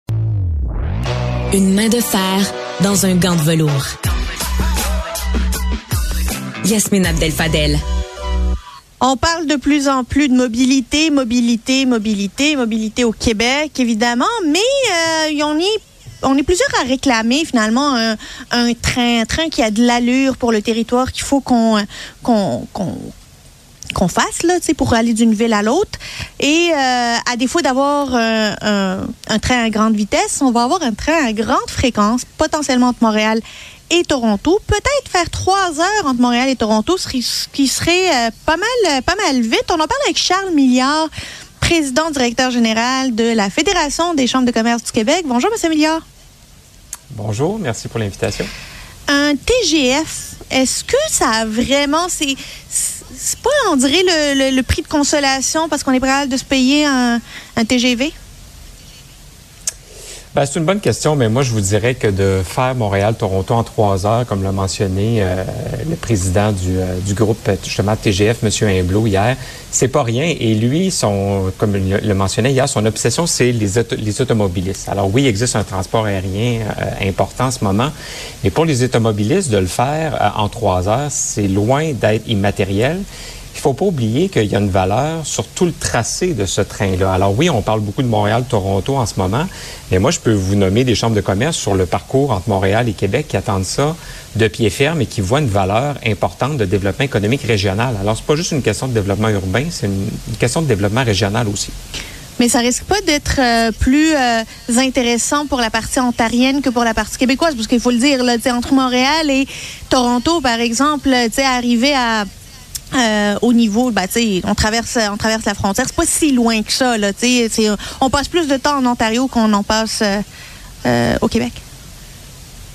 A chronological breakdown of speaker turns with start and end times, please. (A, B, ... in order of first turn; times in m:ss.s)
0:01.5-0:03.9 A
0:06.6-0:07.8 A
0:09.0-0:23.1 B
0:24.0-0:41.1 B
0:41.6-0:46.0 B
0:47.1-0:48.5 C
0:49.1-0:58.1 B
1:00.3-1:41.7 C
1:42.4-1:52.3 B
1:52.9-2:00.2 B
2:00.8-2:01.6 B